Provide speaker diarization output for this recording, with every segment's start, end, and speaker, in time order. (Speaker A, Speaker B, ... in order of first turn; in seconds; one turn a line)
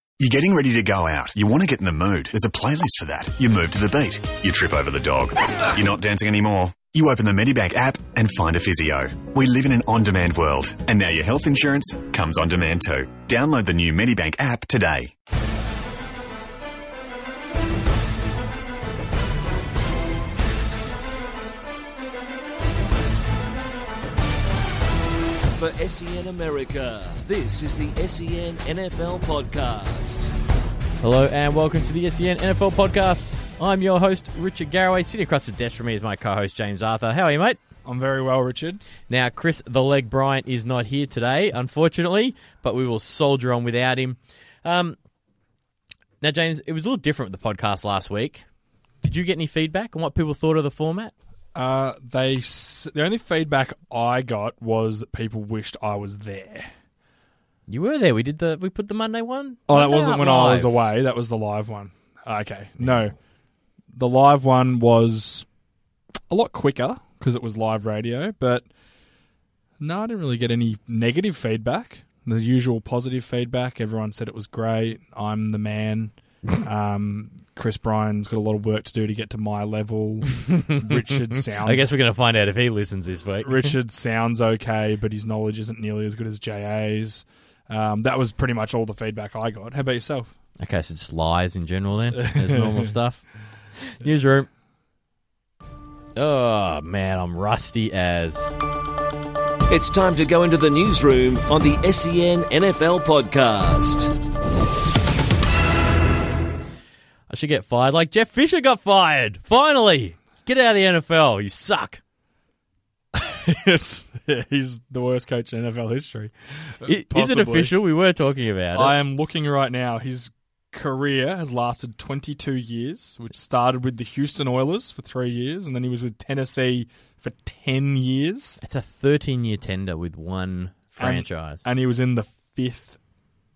Speaker A: 0.2-15.1
Speaker B: 25.5-30.3
Speaker C: 31.0-37.6
Speaker D: 37.8-38.8
Speaker C: 39.1-45.0
Speaker C: 46.2-48.4
Speaker C: 49.0-51.1
Speaker D: 51.5-56.7
Speaker C: 57.7-60.8
Speaker D: 59.7-63.1
Speaker D: 63.9-65.5
Speaker D: 66.3-68.7
Speaker D: 69.8-81.9
Speaker C: 80.3-83.7
Speaker D: 83.4-90.3
Speaker C: 90.6-93.2
Speaker D: 92.1-92.9
Speaker C: 93.8-94.5
Speaker C: 96.2-98.5
Speaker B: 99.7-104.1
Speaker C: 107.3-112.0
Speaker D: 113.1-117.7
Speaker C: 116.8-119.0
Speaker D: 118.7-128.6
Speaker C: 128.6-131.7
Speaker D: 131.0-133.0